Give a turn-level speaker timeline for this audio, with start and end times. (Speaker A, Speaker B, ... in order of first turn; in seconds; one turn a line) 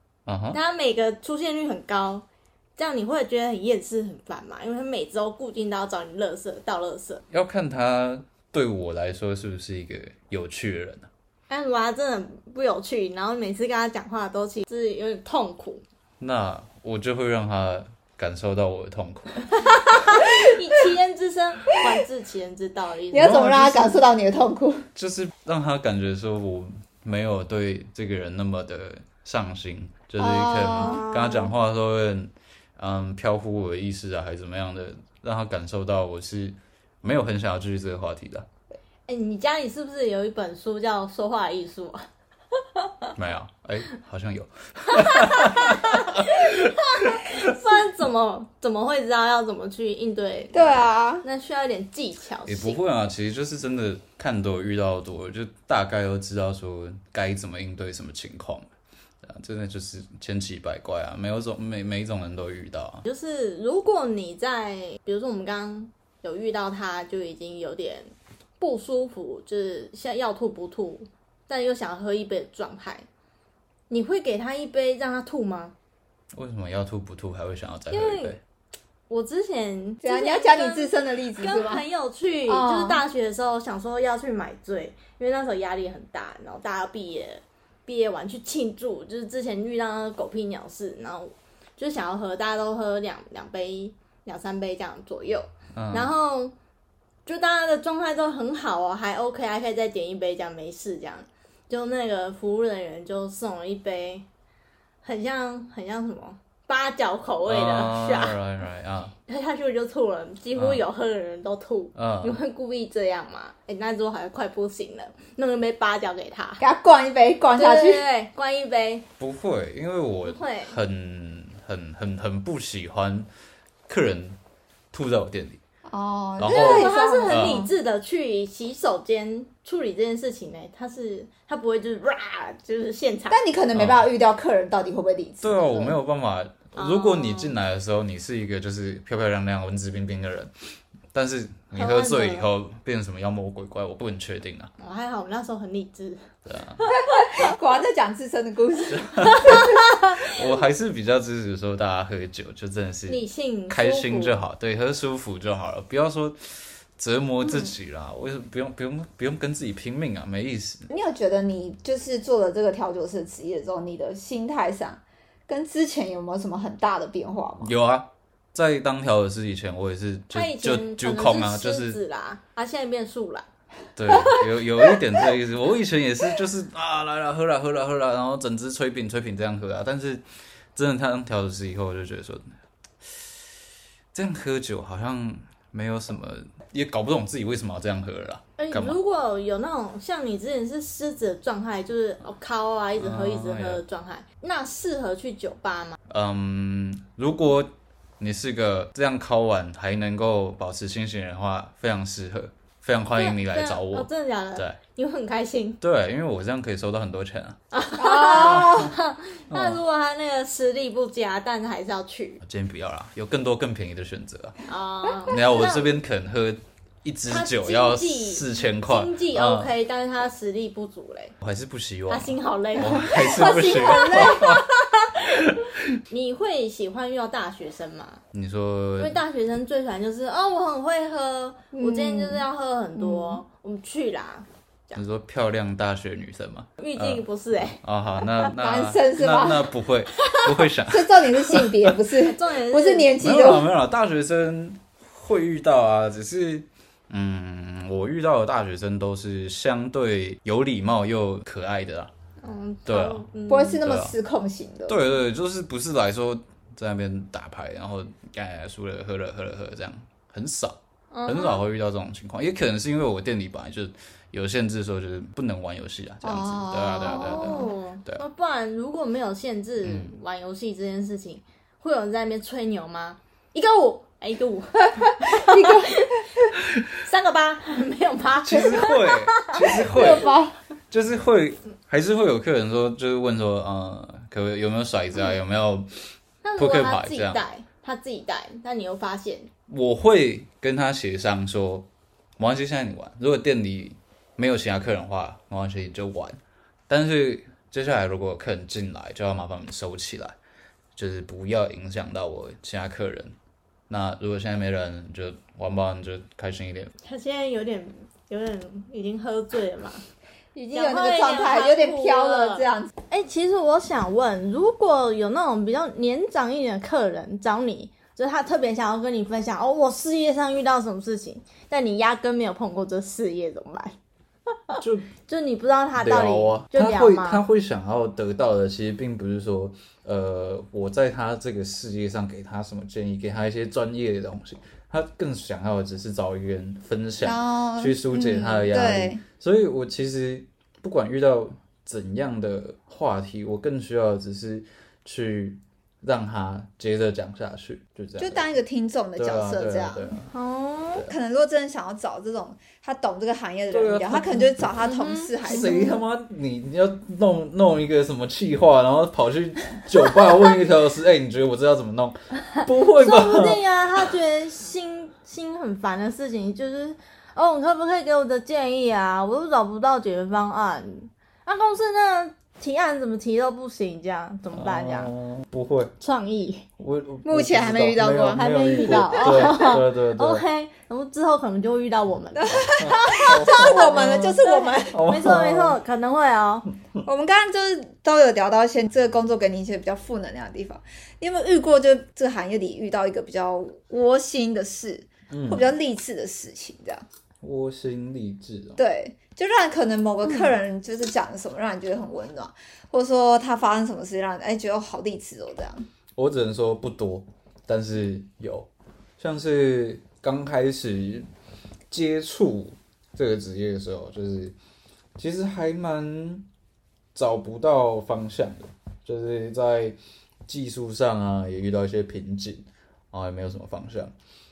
Speaker A: 0.3-0.6
Speaker B: 0.5-7.2
Speaker A: 7.3-11.1
Speaker B: 11.5-15.8
Speaker A: 16.2-19.6
Speaker B: 19.5-23.9
Speaker C: 23.1-24.9
Speaker A: 23.2-24.0
Speaker A: 24.9-38.5
Speaker C: 30.2-31.0
Speaker B: 30.6-31.5
Speaker B: 39.1-42.1
Speaker B: 42.6-43.1
Speaker A: 43.2-47.6
Speaker B: 44.9-52.8
Speaker C: 50.5-51.2
Speaker A: 52.5-58.7
Speaker A: 59.2-63.0
Speaker B: 63.0-73.1
Speaker B: 73.9-75.8
Speaker A: 76.3-78.4
Speaker B: 77.9-78.4
Speaker B: 79.1-96.5
Speaker C: 80.0-81.8
Speaker C: 82.5-83.0
Speaker A: 95.8-96.1
Speaker B: 97.3-104.3
Speaker B: 105.0-108.4
Speaker A: 107.5-109.1
Speaker B: 109.3-116.6
Speaker A: 110.5-110.8
Speaker A: 112.0-112.4
Speaker C: 116.6-118.0
Speaker B: 117.6-119.1
Speaker A: 119.2-123.3
Speaker B: 120.2-120.8
Speaker A: 123.9-124.4
Speaker A: 124.9-125.6
Speaker C: 125.9-127.7
Speaker A: 126.4-127.7
Speaker B: 126.5-133.4
Speaker C: 133.3-136.0
Speaker A: 133.8-134.1
Speaker A: 135.4-140.5
Speaker B: 136.8-137.6
Speaker A: 141.1-144.7
Speaker B: 141.8-142.5
Speaker B: 144.8-146.3
Speaker A: 146.5-146.9
Speaker C: 146.9-149.7
Speaker A: 148.9-160.9
Speaker B: 149.4-150.2
Speaker B: 153.1-154.4
Speaker C: 160.9-167.7
Speaker A: 167.6-172.0
Speaker B: 170.3-173.5
Speaker A: 174.0-180.2
Speaker A: 180.8-182.5
Speaker A: 183.0-183.3
Speaker A: 184.1-189.0
Speaker B: 188.6-196.0
Speaker A: 193.0-193.8
Speaker A: 196.1-204.8
Speaker B: 203.2-205.8
Speaker A: 205.8-207.6
Speaker B: 207.7-212.4
Speaker C: 208.0-208.9
Speaker A: 208.2-208.9
Speaker A: 209.5-209.8
Speaker A: 212.4-214.6
Speaker B: 214.7-215.9
Speaker A: 215.3-219.7
Speaker B: 217.3-221.3
Speaker A: 221.4-224.7
Speaker B: 222.1-225.4
Speaker C: 222.9-224.6
Speaker A: 225.3-226.0
Speaker B: 226.1-228.2
Speaker A: 228.3-229.2
Speaker B: 229.0-235.0
Speaker C: 231.7-232.4
Speaker C: 233.0-233.4
Speaker A: 234.9-237.2
Speaker B: 236.8-237.8
Speaker A: 237.8-241.7
Speaker C: 238.6-239.7
Speaker C: 240.9-243.7
Speaker B: 242.2-243.2
Speaker A: 243.2-252.1
Speaker B: 252.4-253.8
Speaker A: 252.9-253.3
Speaker C: 253.5-255.0
Speaker A: 253.8-254.2
Speaker A: 254.9-268.2
Speaker B: 261.1-261.6
Speaker C: 266.2-267.7
Speaker B: 267.0-276.2
Speaker A: 269.8-270.1
Speaker C: 275.2-276.2
Speaker B: 277.0-280.4
Speaker A: 278.4-280.3
Speaker C: 279.8-280.6
Speaker A: 280.9-285.9
Speaker B: 286.4-289.5
Speaker A: 286.6-287.4
Speaker A: 289.7-300.4
Speaker A: 300.9-303.4
Speaker A: 303.9-306.9
Speaker B: 307.0-310.0
Speaker C: 310.6-312.9
Speaker B: 310.7-323.9
Speaker B: 324.7-327.4
Speaker A: 324.8-325.1
Speaker A: 326.0-348.5
Speaker C: 337.2-339.2
Speaker C: 348.2-350.1
Speaker A: 349.2-350.3
Speaker B: 350.3-351.1
Speaker C: 351.0-356.0
Speaker A: 353.7-354.6
Speaker B: 354.8-355.9
Speaker A: 355.4-364.1
Speaker B: 362.9-375.1
Speaker A: 374.5-375.9
Speaker B: 376.0-376.7
Speaker A: 376.8-380.4
Speaker C: 377.2-379.7
Speaker B: 378.3-382.5
Speaker C: 382.4-385.0
Speaker A: 382.5-384.3
Speaker B: 383.5-386.7
Speaker A: 384.9-385.8
Speaker C: 387.1-397.0
Speaker A: 395.3-395.7
Speaker A: 397.4-398.8
Speaker C: 398.8-405.9
Speaker A: 406.2-411.3
Speaker A: 411.9-414.6
Speaker A: 415.2-416.5
Speaker A: 417.1-424.1